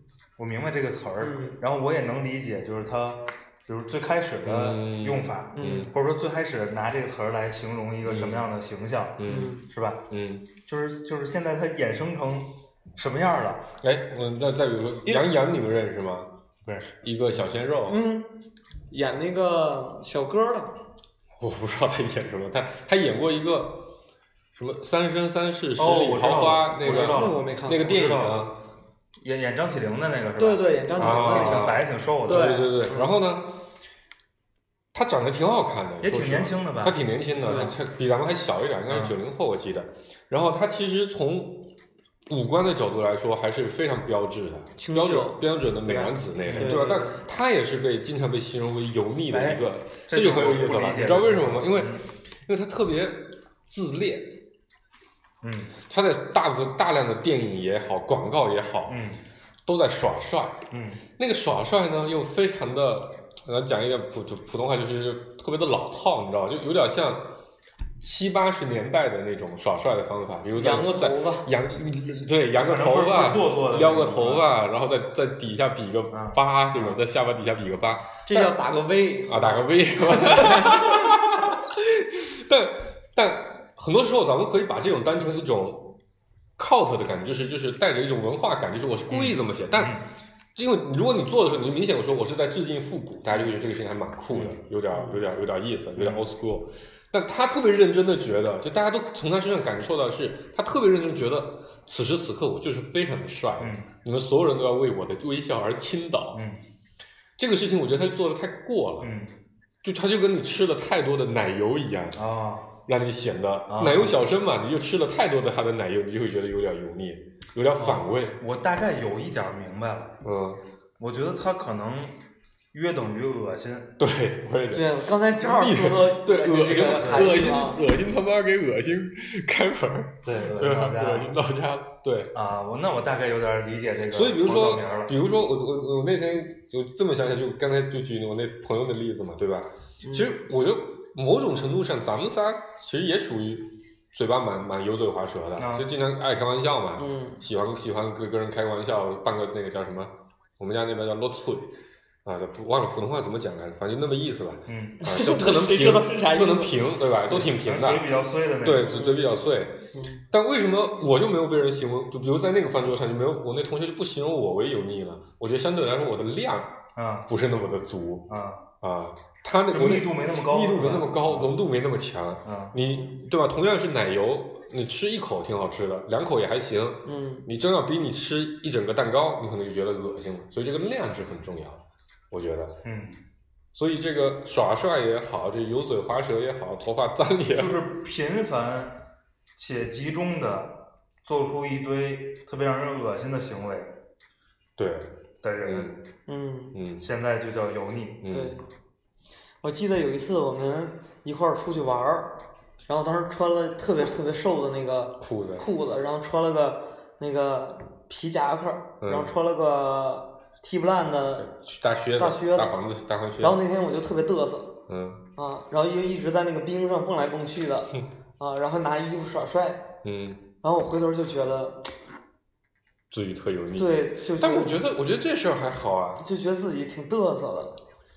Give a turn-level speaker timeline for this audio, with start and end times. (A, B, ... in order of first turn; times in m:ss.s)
0:00.4-0:10.0 A
0:01.2-0:01.6 B
0:04.4-0:05.9 C
0:05.6-0:05.9 B
0:08.0-0:08.4 C
0:09.2-0:09.5 C
0:09.2-0:09.7 B
0:10.1-0:10.5 C
0:10.6-0:13.7 A
0:13.8-0:16.3 C
0:16.6-0:16.9 A
0:17.0-0:18.0 C
0:17.9-0:20.8 B
0:21.4-0:24.0 C
0:24.5-0:28.6 C
0:25.8-0:28.6 A
0:26.8-0:27.9 B
0:29.2-0:32.6 A
0:30.4-0:33.1 B
0:31.0-0:33.6 C
0:34.9-0:41.7 C
0:36.0-0:37.7 A
0:38.9-0:39.1 A
0:42.3-0:54.4 C
0:44.8-0:47.2 B
0:46.4-0:46.8 A
0:49.3-0:52.1 A
0:55.4-0:55.8 A
0:55.8-0:59.0 C
0:58.9-0:59.2 A
0:59.6-1:00.7 C
1:00.7-1:01.0 A
1:01.2-1:07.4 C
1:08.0-1:18.6 C
1:10.5-1:11.5 B
1:12.6-1:14.4 A
1:16.1-1:17.0 A
1:18.3-1:21.3 B
1:19.2-1:26.0 C
1:26.6-1:30.0 C
1:29.1-1:30.0 A
1:30.5-1:46.4 C
1:34.3-1:34.6 A
1:34.9-1:35.2 B
1:36.0-1:36.2 A
1:43.6-1:43.9 A
1:46.3-1:46.6 A
1:47.4-1:49.1 C
1:49.0-1:49.3 A
1:49.8-1:52.2 C
1:52.1-1:52.7 A
1:52.8-1:58.4 C
1:53.7-1:54.2 A
1:57.8-2:00.2 A
2:00.2-2:00.6 C
2:01.0-2:02.2 A
2:02.7-2:04.0 A
2:04.0-2:12.3 C
2:04.7-2:07.8 B
2:06.8-2:07.4 A
2:10.2-2:11.4 A
2:12.3-2:15.1 A
2:14.1-2:31.7 C
2:20.0-2:20.3 B
2:25.6-2:25.9 A
2:27.0-2:27.4 B
2:32.2-2:48.3 C
2:34.7-2:35.0 A
2:35.0-2:36.9 B
2:37.3-2:39.0 A
2:38.8-2:39.2 B
2:39.9-2:40.2 B
2:47.0-2:47.3 A
2:48.3-2:48.6 A
2:48.8-3:02.8 C
2:49.7-2:51.5 A
2:52.4-2:52.7 A
2:57.0-2:57.5 B
3:02.8-3:03.2 A
3:03.7-3:07.8 C
3:07.5-3:09.0 A
3:09.6-3:13.9 A
3:14.8-3:15.1 C
3:15.4-3:15.9 A
3:15.6-3:16.0 C
3:16.3-3:16.8 B
3:16.7-3:17.0 C
3:17.0-3:18.2 A
3:18.2-3:18.6 C
3:18.3-3:18.6 B
3:19.6-3:31.5 B
3:25.2-3:25.6 C
3:29.0-3:29.3 C
3:31.4-3:33.6 C
3:32.2-3:32.8 B
3:33.4-3:34.8 B
3:34.9-3:35.2 C
3:35.3-3:39.9 B
3:40.0-3:40.4 C
3:40.6-3:41.9 B
3:43.1-3:46.2 C
3:43.8-3:44.8 B
3:46.2-3:47.8 B